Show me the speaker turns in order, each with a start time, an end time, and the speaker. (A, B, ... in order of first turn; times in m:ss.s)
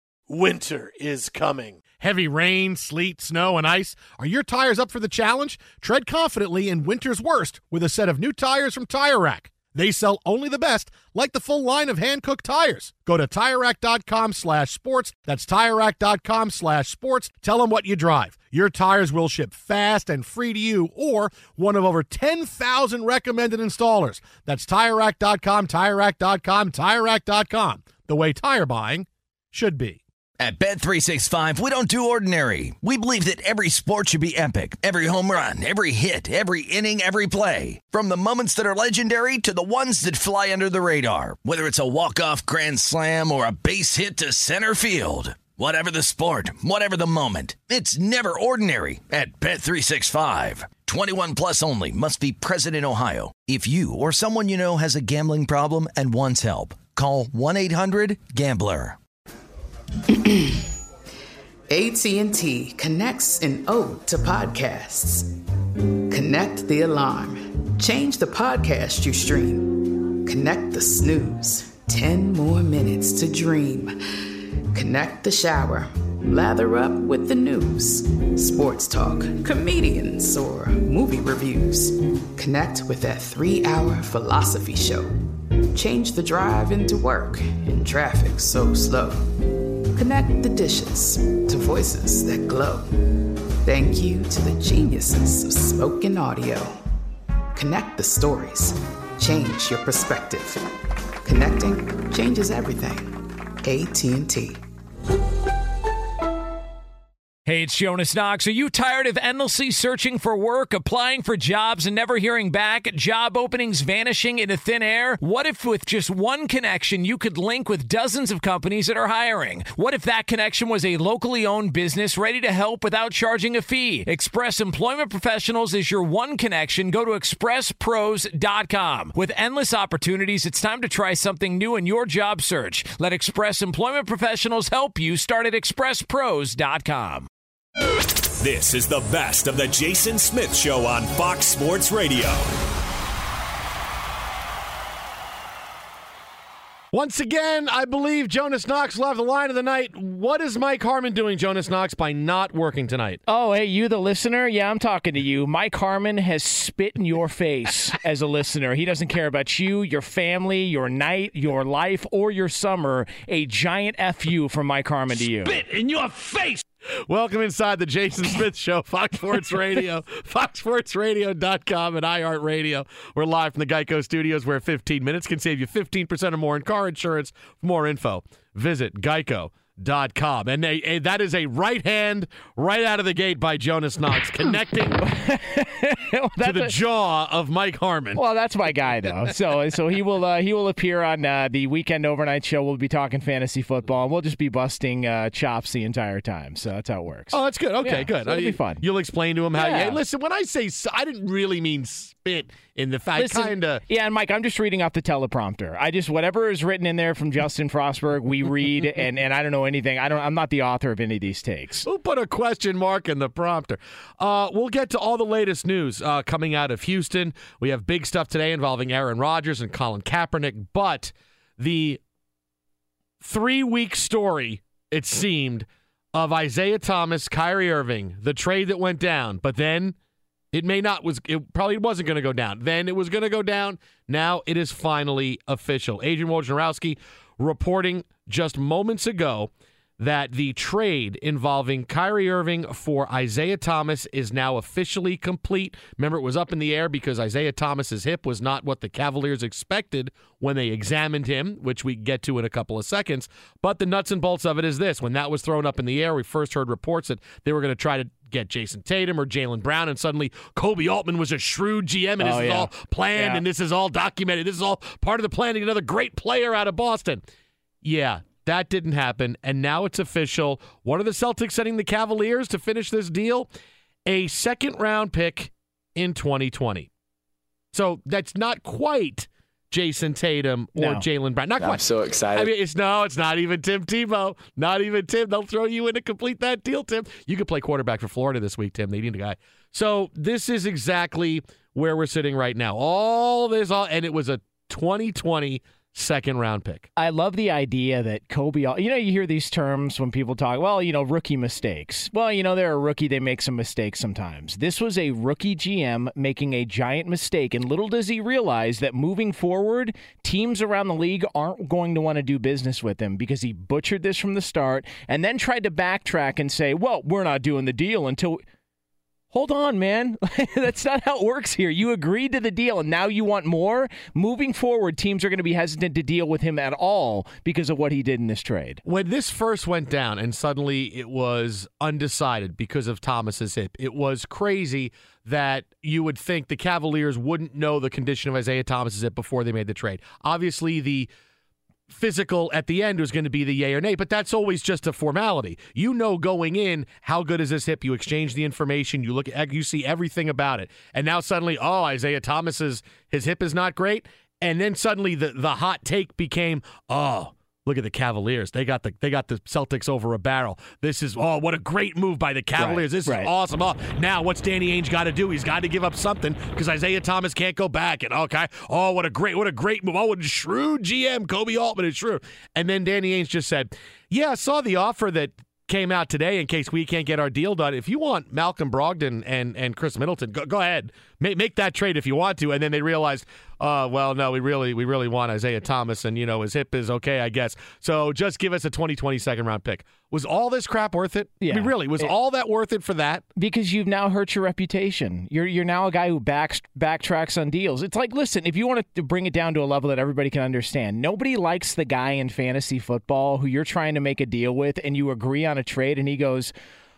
0:00.3-0:01.4 A
0:01.9-0:30.0 A
0:30.4-0:59.0 B
1:00.1-1:00.7 C
1:01.7-1:05.3 C
1:06.1-1:13.9 C
1:14.7-1:25.1 C
1:25.7-1:29.3 C
1:29.9-1:36.8 C
1:37.5-1:40.6 C
1:41.2-1:44.6 C
1:47.4-2:17.3 D
2:18.4-2:22.5 E
2:26.9-2:33.2 A
2:33.3-2:45.6 D
2:47.1-3:05.0 A
3:05.0-3:06.8 D
3:06.4-3:08.2 A
3:08.1-3:18.8 D
3:17.3-3:23.8 A
3:19.5-3:20.0 D
3:23.2-3:31.8 D
3:31.8-3:42.0 A
3:43.2-3:50.0 A
3:50.5-4:27.2 A
4:22.2-4:23.4 D
4:27.8-4:33.5 A
4:34.0-4:36.9 A
4:37.7-4:56.9 A
4:40.8-4:41.0 D
4:57.0-5:18.4 D
5:19.3-5:28.8 D
5:28.8-5:41.1 A
5:41.9-6:33.2 A
6:02.6-6:03.3 D
6:31.4-6:32.1 D
6:33.4-6:46.5 D